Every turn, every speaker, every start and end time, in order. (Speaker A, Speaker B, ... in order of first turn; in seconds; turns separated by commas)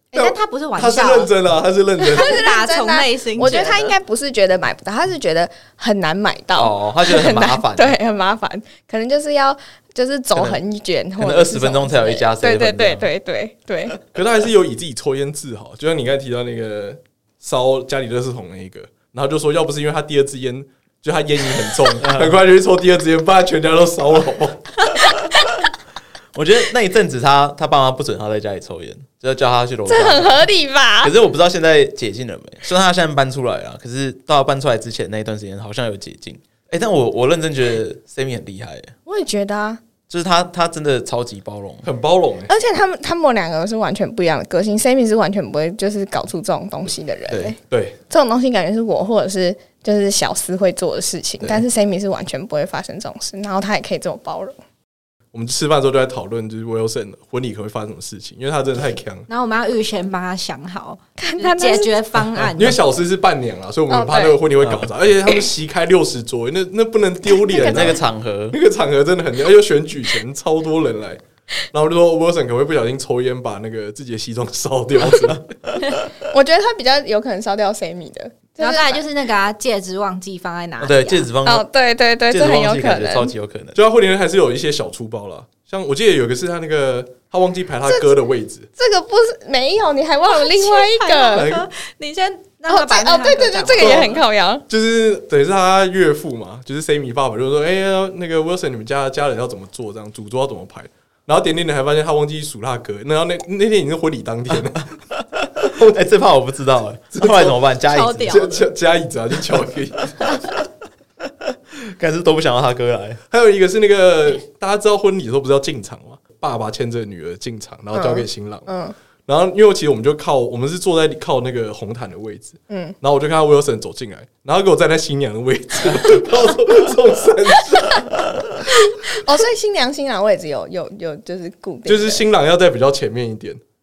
Speaker A: 0.1-1.3, Speaker B: 0.1-2.4, Speaker C: 2.1-14.0, Speaker A: 2.1-3.9, Speaker D: 6.5-8.0, Speaker D: 10.3-10.6, Speaker D: 11.2-13.1, Speaker B: 14.1-24.6, Speaker D: 22.0-22.4, Speaker D: 26.3-30.4, Speaker C: 29.9-31.1, Speaker D: 31.0-38.9, Speaker C: 39.0-39.8, Speaker D: 40.1-41.9, Speaker B: 41.8-42.5, Speaker C: 42.5-47.6, Speaker D: 47.3-47.5, Speaker B: 47.7-48.0, Speaker C: 48.1-54.6, Speaker B: 55.3-59.3, Speaker A: 59.3-62.8, Speaker C: 61.2-62.0, Speaker B: 62.4-68.0, Speaker C: 63.9-64.4, Speaker D: 64.6-64.9, Speaker C: 67.4-67.9, Speaker D: 67.6-68.6, Speaker B: 68.5-71.2, Speaker B: 71.7-75.4, Speaker C: 76.3-79.0, Speaker A: 78.6-81.3, Speaker D: 80.8-81.7, Speaker C: 81.4-83.3, Speaker D: 82.3-83.8, Speaker B: 83.7-88.7, Speaker C: 87.8-88.1, Speaker C: 88.8-91.5, Speaker A: 90.3-94.1, Speaker B: 91.3-91.6, Speaker C: 92.7-94.6, Speaker B: 93.8-94.2, Speaker B: 94.7-104.9, Speaker D: 105.2-108.4, Speaker B: 107.1-107.6, Speaker A: 107.8-108.7, Speaker B: 108.3-110.3, Speaker D: 111.4-113.2, Speaker B: 113.3-118.7, Speaker C: 117.9-118.9, Speaker B: 119.3-128.2, Speaker C: 122.7-122.9, Speaker C: 129.0-132.2, Speaker B: 131.9-133.6